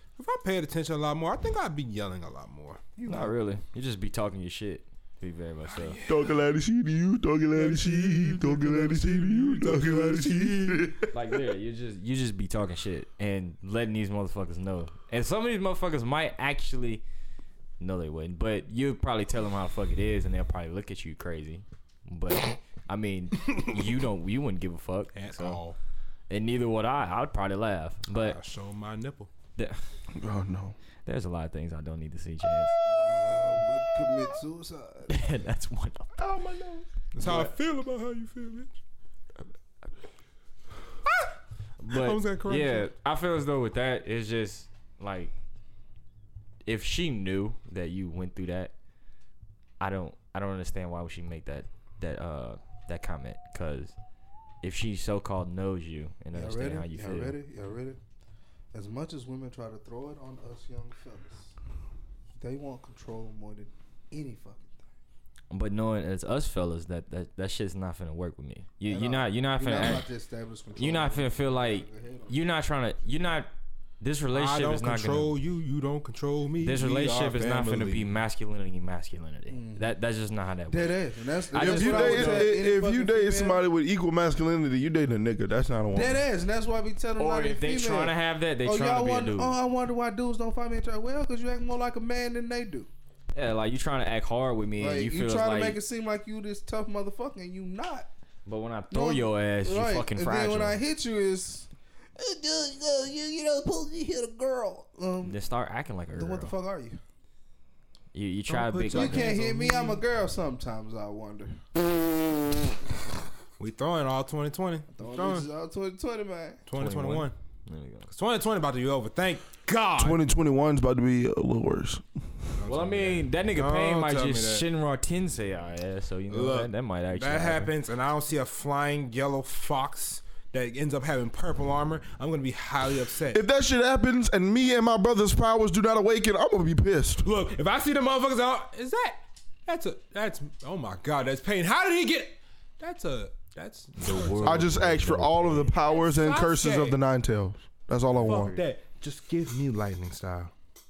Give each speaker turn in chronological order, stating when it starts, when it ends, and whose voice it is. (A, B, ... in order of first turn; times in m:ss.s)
0:00.2-0:02.8 A
0:03.0-0:03.4 B
0:03.1-0:06.0 C
0:05.7-0:06.3 A
0:06.1-0:11.1 D
0:07.6-0:10.9 A
0:11.1-0:17.0 C
0:17.8-0:25.6 C
0:25.1-0:25.8 A
0:26.3-0:28.4 C
0:28.1-0:29.3 A
0:30.1-0:30.8 D
0:31.1-0:32.8 C
0:32.9-0:35.3 B
0:35.1-0:36.2 C
0:36.2-0:36.9 D
0:37.2-0:38.7 A
0:37.2-0:37.5 C
0:41.8-0:45.3 C
0:41.9-0:42.9 A
0:46.7-0:48.7 C
0:49.8-0:54.0 C
0:54.6-0:57.4 C
0:56.3-0:58.0 B
0:58.7-1:01.5 B
1:02.4-1:04.8 B
1:05.5-1:10.1 C
1:08.9-1:12.5 B
1:10.8-1:15.3 C
1:14.3-1:18.1 A
1:16.6-1:21.0 C
1:19.5-1:19.9 B
1:20.7-1:23.6 B
1:21.5-1:22.5 C
1:21.6-1:26.2 D
1:25.9-1:32.9 B
1:27.2-1:29.6 C
1:33.3-1:35.8 C
1:34.8-1:38.1 B
1:38.5-1:40.8 C
1:38.9-1:45.4 B
1:45.2-1:46.5 C
1:46.1-1:47.0 B
1:48.1-1:49.4 C
1:48.5-1:50.0 A
1:48.9-1:51.7 B
1:53.6-1:55.5 A
1:54.9-1:56.6 B
1:56.7-1:57.4 A
1:56.7-1:58.1 C
1:58.1-2:00.2 A
2:00.0-2:02.0 D
2:02.6-2:04.7 A
2:02.7-2:07.7 C
2:06.3-2:13.4 A
2:13.3-2:17.3 D
2:17.2-2:27.0 A
2:24.0-2:24.9 C
2:24.4-2:28.6 D
2:28.2-2:28.6 C
2:28.2-2:30.5 A